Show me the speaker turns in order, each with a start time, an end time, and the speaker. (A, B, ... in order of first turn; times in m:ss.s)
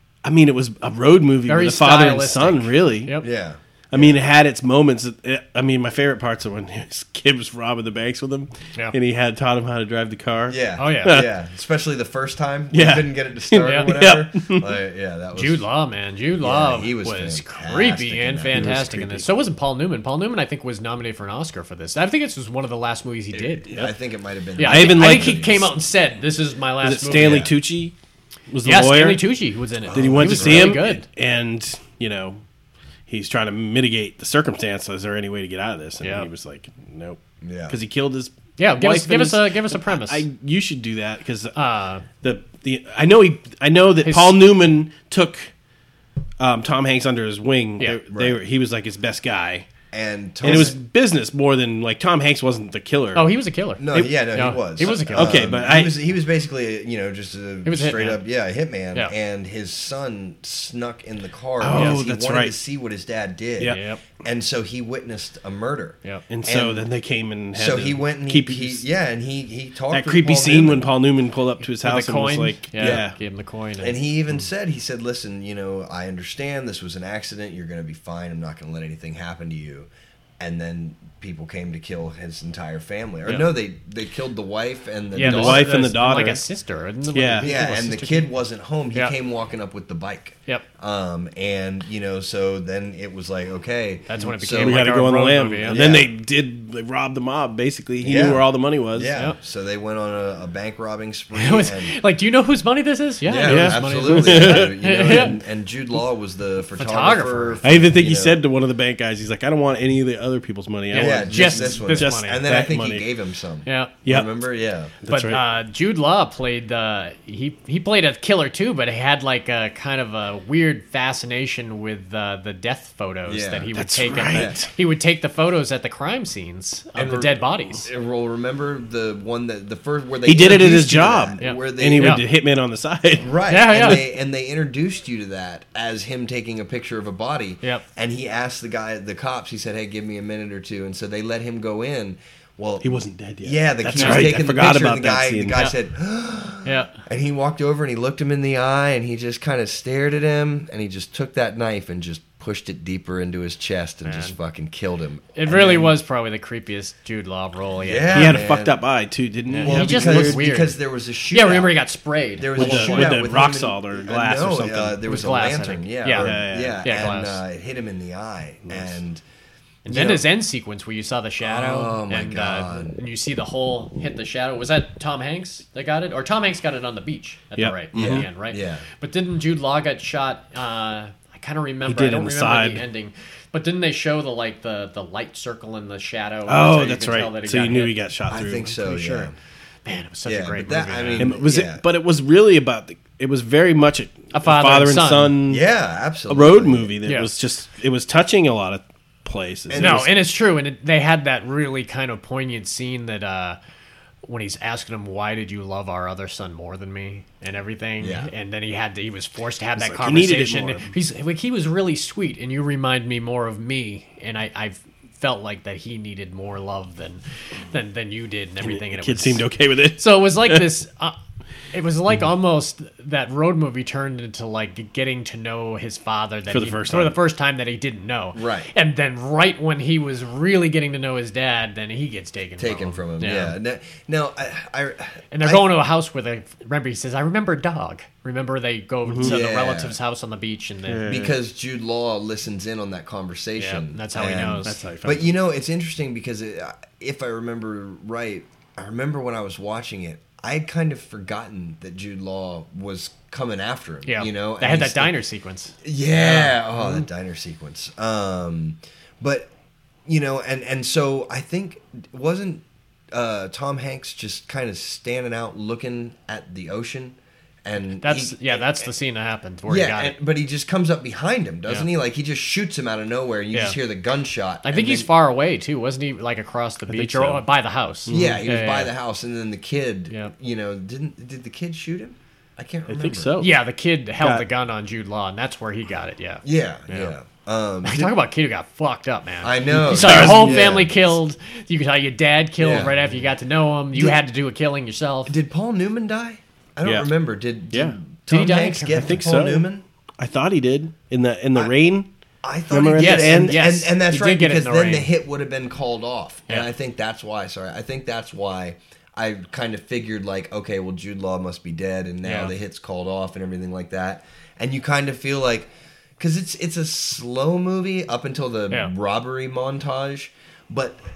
0:00.2-0:03.1 A
0:01.5-0:03.3 B
0:03.2-0:04.2 C
0:03.9-0:11.3 A
0:10.5-0:15.6 C
0:10.8-0:11.2 B
0:12.7-0:14.7 A
0:13.6-0:13.9 B
0:15.4-0:23.9 B
0:16.4-0:18.9 C
0:18.5-0:19.3 A
0:23.3-0:25.7 C
0:24.6-0:27.5 B
0:24.6-0:25.6 A
0:26.8-0:27.9 A
0:27.1-0:27.5 C
0:28.5-0:29.2 A
0:28.6-0:31.0 B
0:29.8-0:30.8 C
0:29.9-0:32.4 A
0:33.1-0:41.5 A
0:36.0-0:36.3 B
0:37.4-0:37.8 C
0:38.6-0:40.2 B
0:41.6-0:42.0 B
0:42.2-0:45.5 A
0:44.0-0:44.4 B
0:46.4-0:49.7 A
0:48.1-0:48.4 C
0:49.9-0:50.7 C
0:50.4-0:53.3 A
0:53.2-0:55.4 B
0:53.8-1:06.9 C
0:54.8-0:56.0 A
0:57.6-0:58.2 B
1:01.6-1:02.6 A
1:01.7-1:02.0 B
1:03.6-1:04.0 B
1:06.3-1:08.9 A
1:07.5-1:10.9 C
1:09.9-1:13.2 A
1:11.8-1:14.0 B
1:12.8-1:13.0 C
1:13.8-1:19.9 C
1:20.4-1:25.7 C
1:25.2-1:28.3 B
1:25.2-1:26.4 A
1:27.1-1:27.6 A
1:27.4-1:34.8 C
1:34.1-1:35.8 B
1:34.5-1:39.1 A
1:35.7-1:36.1 C
1:38.0-1:41.9 C
1:41.3-1:45.4 B
1:43.2-1:48.4 C
1:43.4-1:45.3 A
1:46.8-1:47.6 B
1:47.6-1:53.1 A
1:50.9-1:52.4 B
1:51.0-1:54.9 C
1:53.6-1:53.9 B
1:55.0-1:55.4 A
1:55.1-2:07.9 B
2:03.3-2:03.7 C
2:03.7-2:04.7 A
2:04.3-2:04.6 C
2:06.9-2:12.2 C
2:10.2-2:13.3 A
2:11.4-2:12.2 B
2:13.2-2:35.9 C
2:13.5-2:14.0 B
2:22.8-2:25.6 A
2:23.9-2:24.4 B
2:26.6-2:27.0 B
2:34.0-2:34.4 B
2:35.4-2:38.4 B
2:37.8-2:38.8 C
2:38.1-2:40.4 A
2:39.5-2:40.8 B
2:39.6-2:41.8 C
2:41.3-2:43.2 B
2:42.4-2:49.2 C
2:42.6-2:45.0 A
2:45.1-2:47.4 B
2:46.2-2:46.8 A
2:48.6-2:49.0 A
2:49.8-3:07.9 B
2:49.9-2:50.2 C
2:51.4-2:53.0 C
2:57.6-2:58.3 A
2:57.9-2:58.9 C
3:01.9-3:02.8 A
3:06.5-3:08.7 A
3:08.3-3:09.4 C
3:08.8-3:09.3 B
3:09.8-3:11.4 B
3:10.2-3:11.8 C
3:11.2-3:15.6 A
3:14.3-3:15.4 B
3:15.5-3:16.9 C
3:16.3-3:20.1 A
3:17.0-3:17.3 B
3:19.7-3:20.1 C
3:19.8-3:23.6 B
3:24.2-3:39.4 B
3:28.0-3:28.3 C
3:29.8-3:30.9 A
3:38.6-3:40.6 A
3:40.0-3:41.2 B
3:41.7-3:53.6 B
3:46.5-3:47.2 A
3:48.4-3:48.7 C
3:52.6-3:55.6 C
3:55.3-4:01.1 B
3:59.1-3:59.4 A
3:59.2-4:00.0 C
4:00.9-4:01.4 A
4:01.1-4:15.2 C
4:03.6-4:04.8 B
4:04.6-4:05.3 A
4:14.1-4:17.1 B
4:15.8-4:19.5 C
4:20.1-4:28.9 C
4:28.0-4:30.2 B
4:29.7-4:35.1 C
4:34.6-4:38.9 B
4:36.9-4:37.4 A
4:38.1-4:38.4 A
4:38.1-4:43.3 C
4:42.9-4:43.6 A
4:43.4-4:47.1 B
4:44.2-4:44.4 A
4:46.4-4:48.1 C
4:47.8-4:55.4 B
4:49.4-4:51.1 C
4:49.7-4:50.7 A
4:52.6-4:53.0 C
4:55.3-4:59.8 C
4:56.8-4:57.1 A
4:57.7-4:58.0 A
4:58.3-4:59.1 B
4:58.9-4:59.7 A
5:00.2-5:02.1 A
5:02.4-5:21.0 C
5:02.7-5:03.6 A
5:03.0-5:05.1 B
5:12.2-5:12.5 B